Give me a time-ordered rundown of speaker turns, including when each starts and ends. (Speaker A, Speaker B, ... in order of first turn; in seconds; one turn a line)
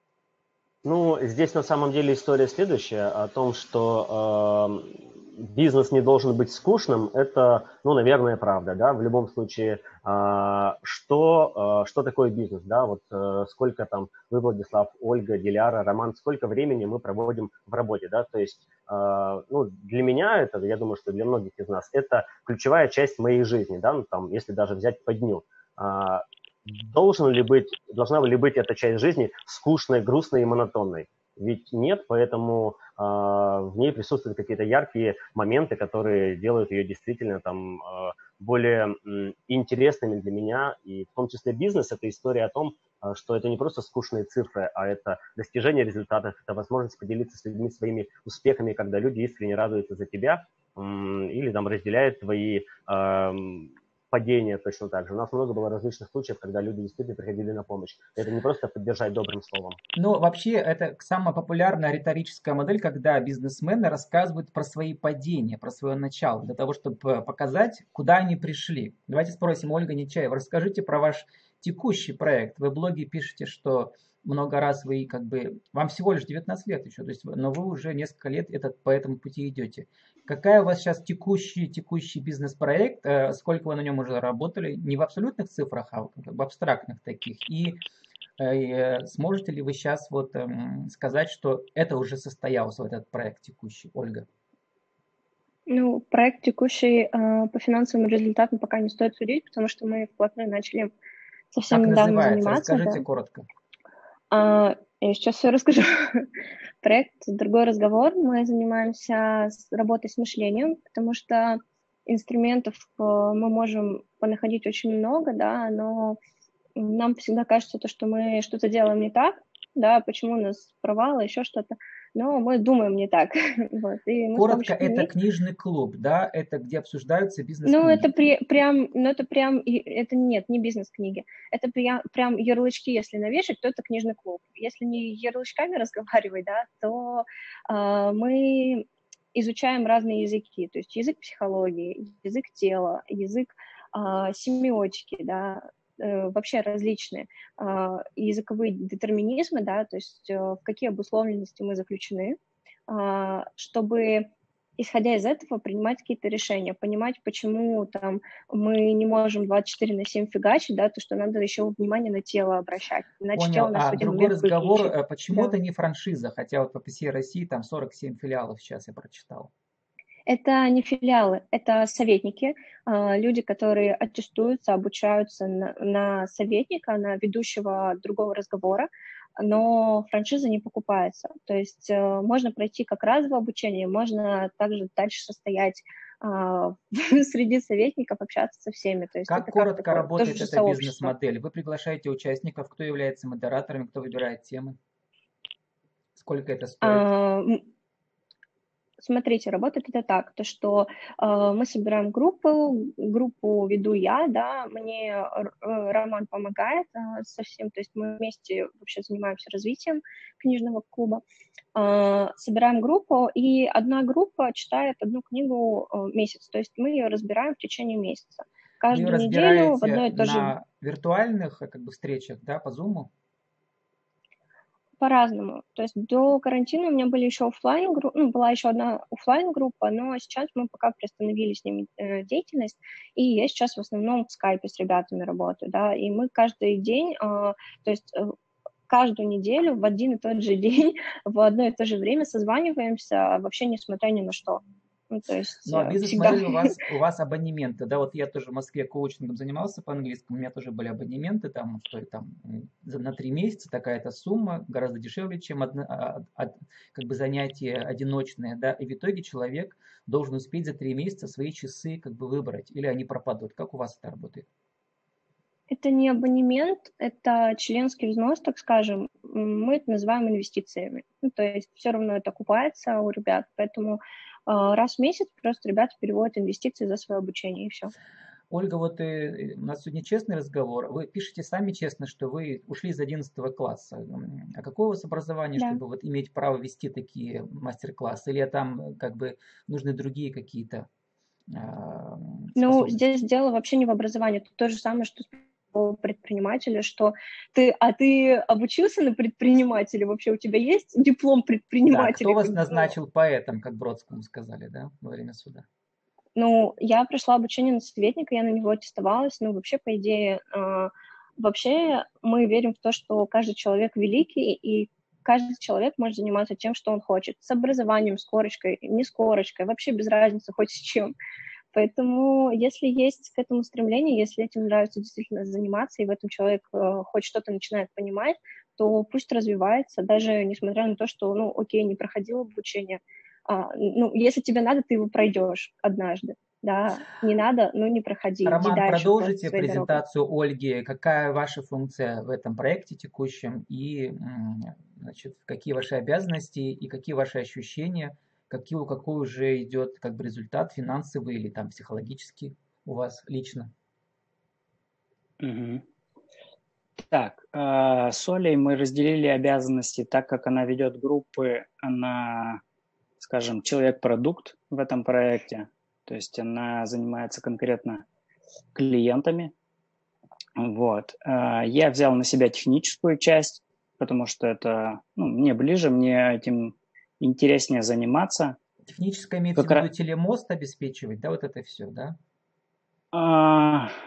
Speaker A: 0.8-59.8
Speaker B: 60.0-87.8
Speaker B: 88.4-94.2
Speaker C: 95.7-100.9
Speaker C: 101.5-103.0
Speaker B: 101.7-103.5
Speaker C: 104.3-106.3
Speaker C: 106.8-116.2
Speaker C: 116.8-125.1
Speaker B: 124.3-128.1
Speaker C: 127.6-152.4
Speaker C: 152.9-165.5
Speaker B: 163.3-169.5
Speaker C: 170.3-178.9
Speaker C: 179.4-191.1
Speaker B: 189.3-194.8
Speaker B: 196.2-197.1
Speaker C: 196.8-197.7
Speaker C: 199.0-211.2
Speaker C: 211.8-220.5
Speaker B: 218.9-223.1
Speaker C: 225.0-238.3
Speaker C: 238.9-246.8
Speaker B: 245.7-264.5
Speaker C: 265.7-277.9
Speaker B: 278.5-290.9
Speaker B: 291.5-293.0
Speaker C: 292.6-302.9
Speaker B: 301.8-305.6
Speaker C: 306.4-321.1
Speaker C: 321.7-340.0
Speaker B: 338.5-353.7
Speaker D: 355.4-355.8
Speaker D: 357.1-362.6
Speaker D: 363.2-368.0
Speaker D: 368.8-369.5
Speaker D: 370.6-378.6
Speaker B: 378.9-382.2
Speaker D: 379.6-379.9
Speaker D: 383.1-383.9